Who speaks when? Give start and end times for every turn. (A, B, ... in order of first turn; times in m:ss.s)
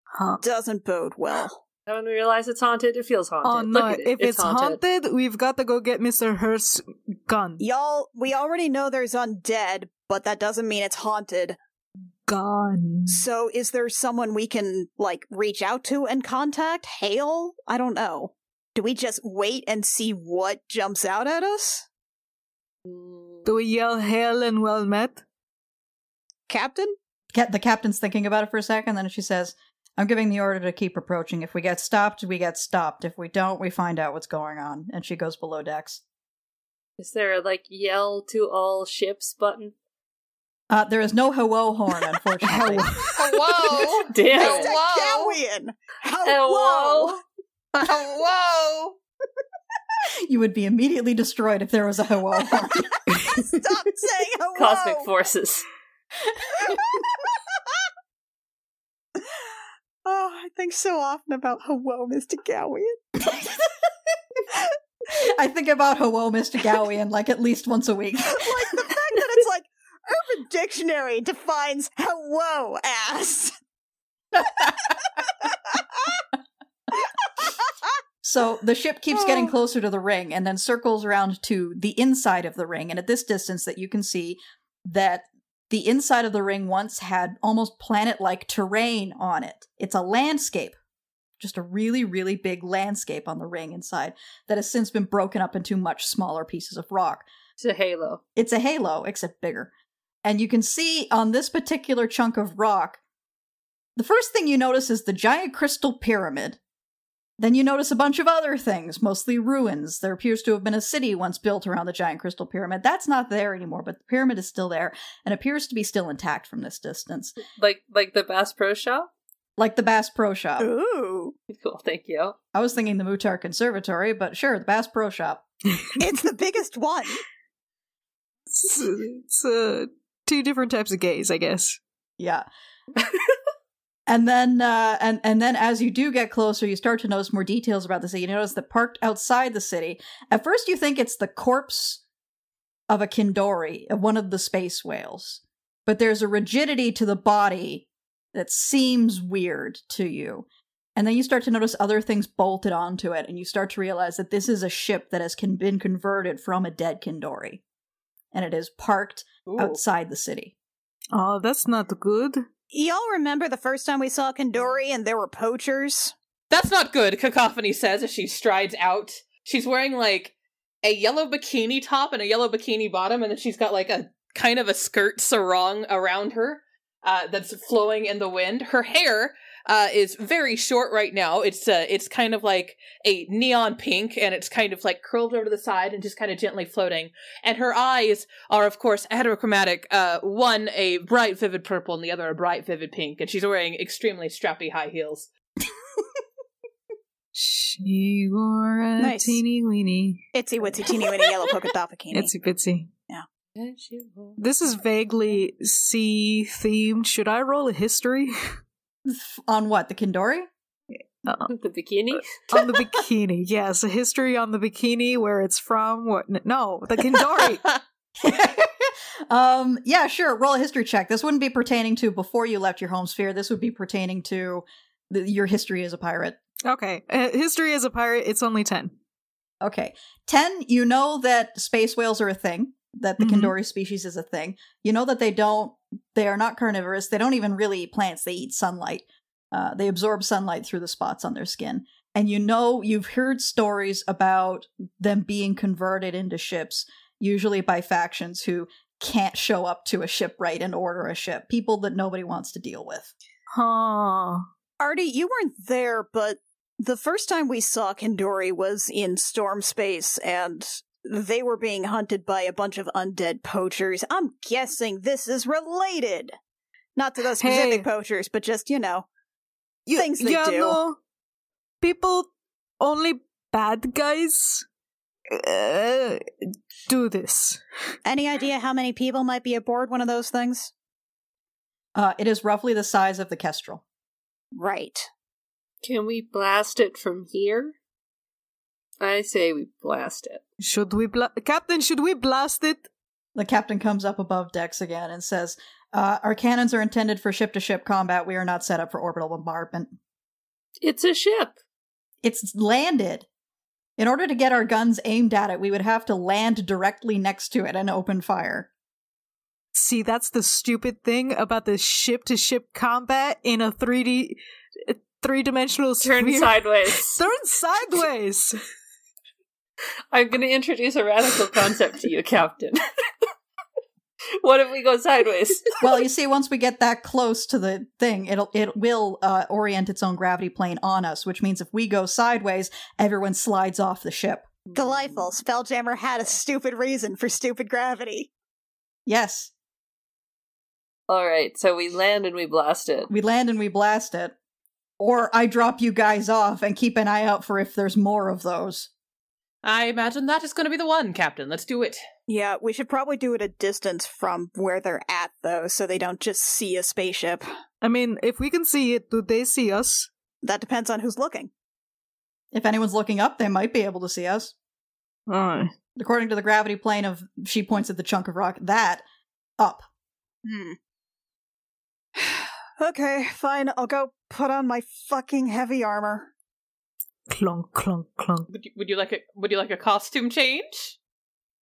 0:00.2-0:00.4 A
0:00.4-0:01.6 B
0:01.9-0:04.8 C
0:03.4-0:07.6 A
0:07.6-0:11.6 B
0:12.3-0:13.3 A
0:13.1-0:21.9 B
0:22.8-0:23.5 C
0:23.4-0:25.2 A
0:26.5-0:26.9 B
0:27.3-0:36.0 D
0:37.0-0:39.7 C
0:40.7-0:42.9 D
0:42.4-0:43.2 A
0:43.1-0:45.4 E
0:44.1-0:44.7 C
0:44.3-0:47.2 B
0:46.2-0:47.2 C
0:47.7-0:49.0 E
0:50.2-0:52.9 D
0:53.4-0:55.1 B
0:54.6-0:55.6 C
1:00.0-1:03.0 B
1:03.2-1:03.7 D
1:05.1-1:08.8 D
1:08.3-1:13.5 B
1:14.4-1:14.9 D
1:15.7-1:16.2 B
1:18.2-1:30.8 D
1:19.2-1:19.5 B
1:31.4-1:37.2 D
1:37.6-1:38.2 C
1:38.4-1:39.7 D
1:40.2-1:43.0 D
1:44.0-1:46.6 D
1:47.4-1:57.4 D
1:57.5-1:59.1 C
1:59.6-2:00.7 D
2:00.6-2:01.4 B
2:01.5-2:02.4 C
2:02.5-2:05.4 D
2:06.0-2:07.2 B
2:08.5-2:11.8 A
2:12.2-2:12.4 D
2:14.1-2:22.0 D
2:22.9-2:37.6 D
2:38.3-2:40.6 D
2:39.5-2:39.8 E
2:41.1-2:42.4 A
2:42.7-2:46.1 B
2:46.5-3:15.3 E
3:17.3-3:20.3 A
3:19.0-3:19.4 B
3:20.3-3:22.3 B
3:20.9-3:21.6 A
3:22.1-3:22.9 A
3:23.6-3:24.4 C
3:24.4-3:28.3 A
3:29.0-3:30.5 D
3:31.2-3:31.5 A
3:31.4-3:32.3 C
3:32.5-3:37.6 A
3:38.2-3:46.4 D
3:46.6-3:48.9 A
3:49.6-4:13.1 D
3:53.2-3:53.5 A
4:13.5-4:14.4 A
4:14.8-4:26.4 B
4:27.0-4:29.1 B
4:27.4-4:27.9 A
4:29.9-4:31.0 A
4:30.0-4:30.8 B
4:31.8-4:34.6 A
4:35.3-4:36.2 A
4:36.9-4:37.6 A
4:38.0-4:40.7 B
4:41.9-4:43.8 D
4:44.5-4:45.1 B
4:45.8-4:47.8 C
4:49.0-4:50.4 C
4:50.6-4:52.9 A
4:53.4-4:59.9 D
5:00.8-5:01.6 C
5:02.2-5:03.3 D
5:04.0-5:08.7 D
5:09.7-5:18.6 A
5:16.0-5:17.2 C
5:20.1-5:22.9 C
5:24.4-5:25.8 C
5:25.8-5:34.5 D
5:34.8-5:38.3 B
5:39.1-5:39.5 D
5:41.1-5:43.1 C
5:43.1-5:44.4 D
5:45.0-5:48.9 D
5:49.6-5:52.0 E
5:52.3-5:57.4 B
5:57.8-6:00.1 A
6:00.4-6:01.5 B
6:02.5-6:04.6 D
6:05.3-6:05.7 A
6:06.0-6:09.0 D
6:09.6-6:09.9 D
6:10.4-6:10.8 B
6:12.2-6:16.3 B
6:17.3-6:18.5 A
6:18.5-6:21.0 E